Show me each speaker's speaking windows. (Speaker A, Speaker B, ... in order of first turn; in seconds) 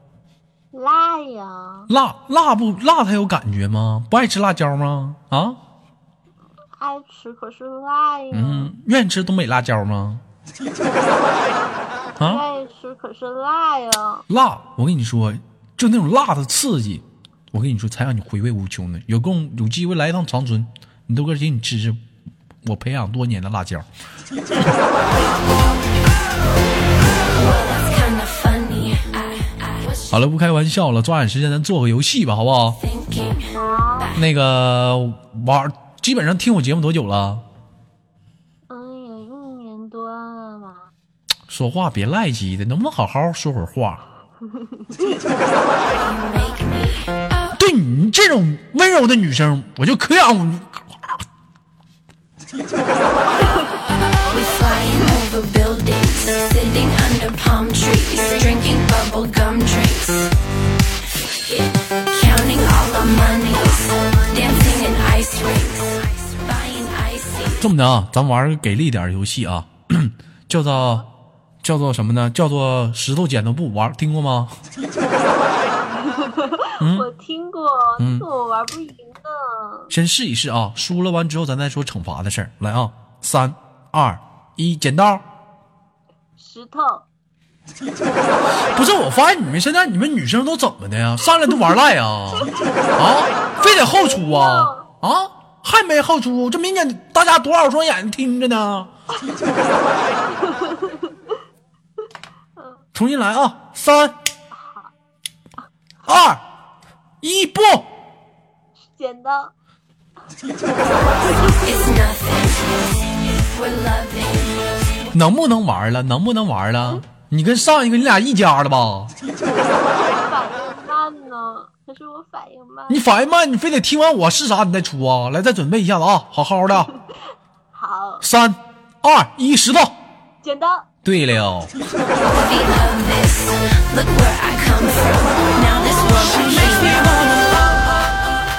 Speaker A: 0.7-1.9, 6.8-8.7, 12.2-14.3, 33.5-34.2, 38.7-40.9, 44.5-45.1, 75.9-79.9, 86.4-87.1, 93.6-94.9, 100.3-101.3, 102.6-102.8, 104.5-104.9, 108.8-109.5, 111.2-111.6, 119.5-123.0, 126.9-127.1, 127.7-128.3, 130.4-130.9
Speaker B: 1.9-5.6, 8.3-10.2, 12.2-12.4, 14.3-22.0, 22.6-23.9, 30.1-32.8, 34.2-37.5, 41.5-44.0, 47.6-51.2, 67.6-71.1, 71.6-74.6, 76.8-77.1, 78.0-78.3, 79.9-85.2, 88.7-98.9, 103.0-104.2, 106.1-106.4, 107.2-107.9, 115.1-119.1, 122.9-126.9, 128.2-130.0, 131.0-131.7
Speaker C: 27.3-30.1, 32.8-33.6, 45.9-47.2, 54.2-60.3, 61.5-67.6, 111.4-112.9, 113.4-114.7, 132.2-137.3